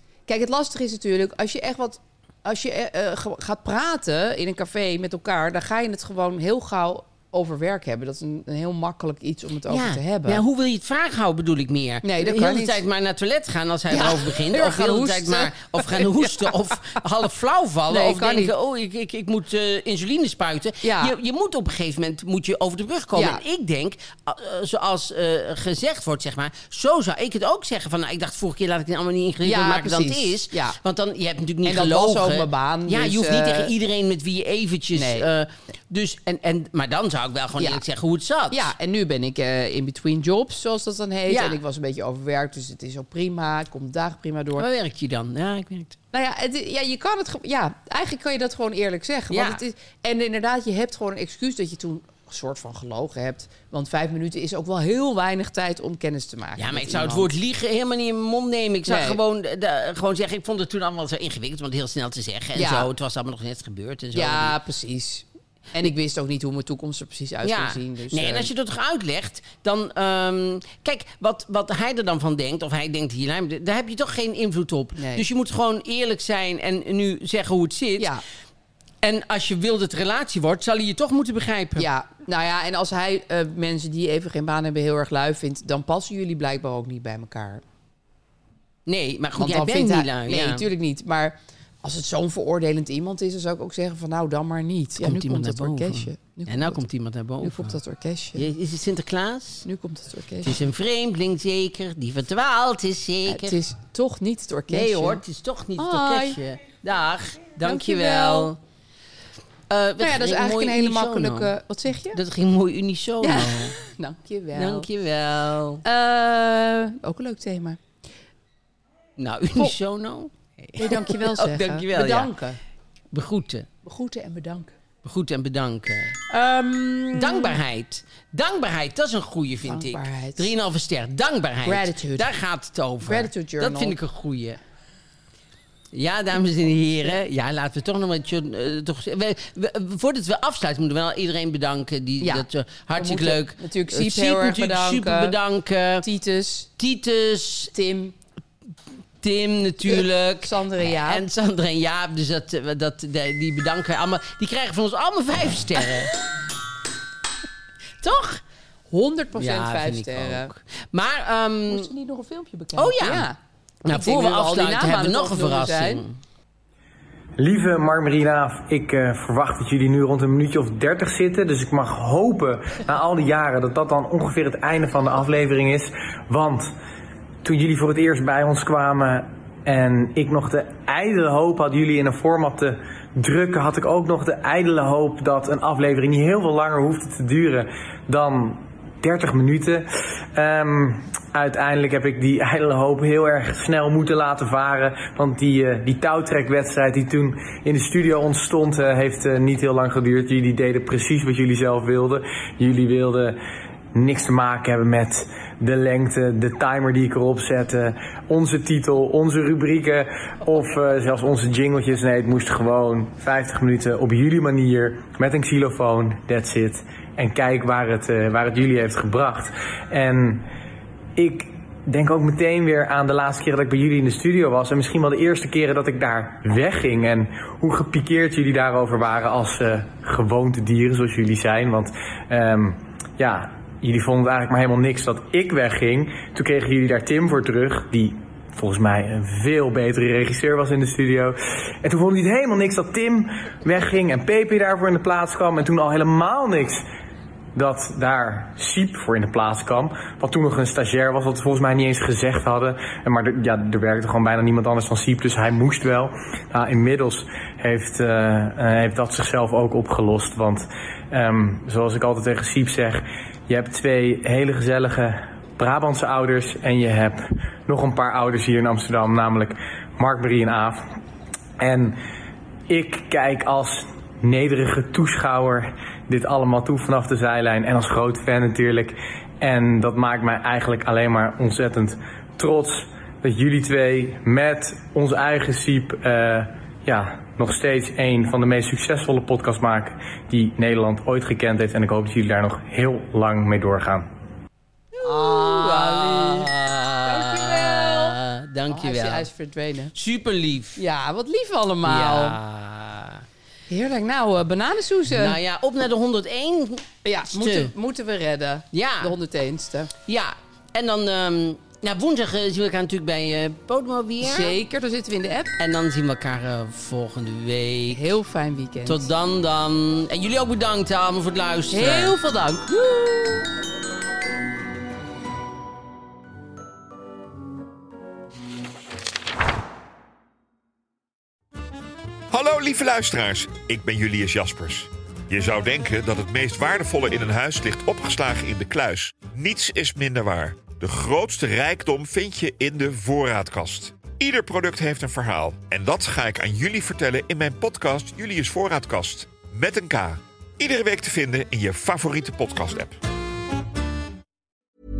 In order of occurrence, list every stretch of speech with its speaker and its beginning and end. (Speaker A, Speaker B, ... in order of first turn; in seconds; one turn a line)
Speaker A: 0.3-10.4
Speaker B: 9.7-38.7
Speaker A: 12.0-12.8
Speaker A: 13.9-16.6
Speaker A: 17.9-18.5
Speaker A: 20.8-21.1
Speaker A: 23.1-23.4
Speaker A: 29.4-30.8
Speaker A: 31.6-33.7
Speaker A: 34.9-35.2
Speaker A: 38.5-44.6
Speaker B: 41.3-41.6
Speaker B: 44.6-46.0
Speaker A: 46.1-57.3
Speaker B: 49.3-49.6
Speaker B: 56.6-64.5
Speaker A: 58.9-59.2
Speaker A: 62.5-62.9
Speaker A: 64.1-68.5
Speaker B: 67.4-78.1
Speaker A: 75.0-75.2
Speaker B: 79.0-81.9
Speaker A: 81.8-87.6
Speaker B: 88.9-90.7
Speaker A: 89.4-96.8
Speaker B: 95.0-97.8
Speaker A: 97.4-98.4
Speaker B: 98.3-99.6
Speaker A: 99.6-100.5
Speaker B: 100.4-103.6
Speaker A: 103.3-105.2
Speaker B: 104.7-108.6
Speaker A: 105.8-106.4
Speaker A: 107.6-108.5
Speaker B: 109.7-111.5
Speaker A: 110.0-112.2
Speaker B: 112.1-113.7
Speaker A: 113.2-114.9
Speaker B: 114.5-115.8
Speaker A: 115.8-117.8
Speaker B: 119.2-122.3
Speaker A: 120.8-122.6
Speaker B: 123.1-123.7
Speaker A: 123.8-124.7
Speaker B: 125.0-126.2
Speaker A: 126.3-127.6
Speaker B: 127.1-134.6
Speaker A: 129.6-130.5
Speaker A: 131.6-132.3
Speaker A: 133.0-133.9
Speaker B: 135.9-146.0
Speaker A: 143.0-145.3
Speaker A: 146.0-146.7
Speaker B: 146.8-147.7
Speaker A: 147.7-148.1
Speaker B: 149.2-156.2
Speaker A: 149.9-151.2
Speaker B: 158.0-158.4
Speaker A: 158.9-160.5
Speaker B: 159.3-161.9
Speaker A: 161.7-163.4
Speaker B: 162.8-163.3
Speaker B: 163.8-166.2
Speaker A: 163.9-166.0
Speaker C: 167.4-176.7
Speaker C: 177.4-203.4
Speaker C: 203.9-220.4
Speaker C: 221.2-246.8
Speaker C: 247.5-270.9
Speaker C: 271.6-272.0
Speaker C: 272.7-294.1
Speaker B: 295.0-299.3
Speaker A: 295.0-296.5
Speaker A: 297.0-298.2
Speaker A: 298.7-299.9
Speaker B: 299.9-300.8
Speaker A: 300.8-302.4
Speaker B: 301.8-303.2
Speaker A: 303.7-305.4
Speaker B: 305.1-307.7
Speaker A: 307.0-309.9
Speaker B: 308.7-309.1
Speaker B: 310.1-314.6
Speaker A: 314.2-315.5
Speaker B: 315.6-318.0
Speaker A: 317.9-319.1
Speaker B: 318.9-322.1
Speaker A: 321.7-322.7
Speaker B: 322.8-323.4
Speaker D: 332.3-353.0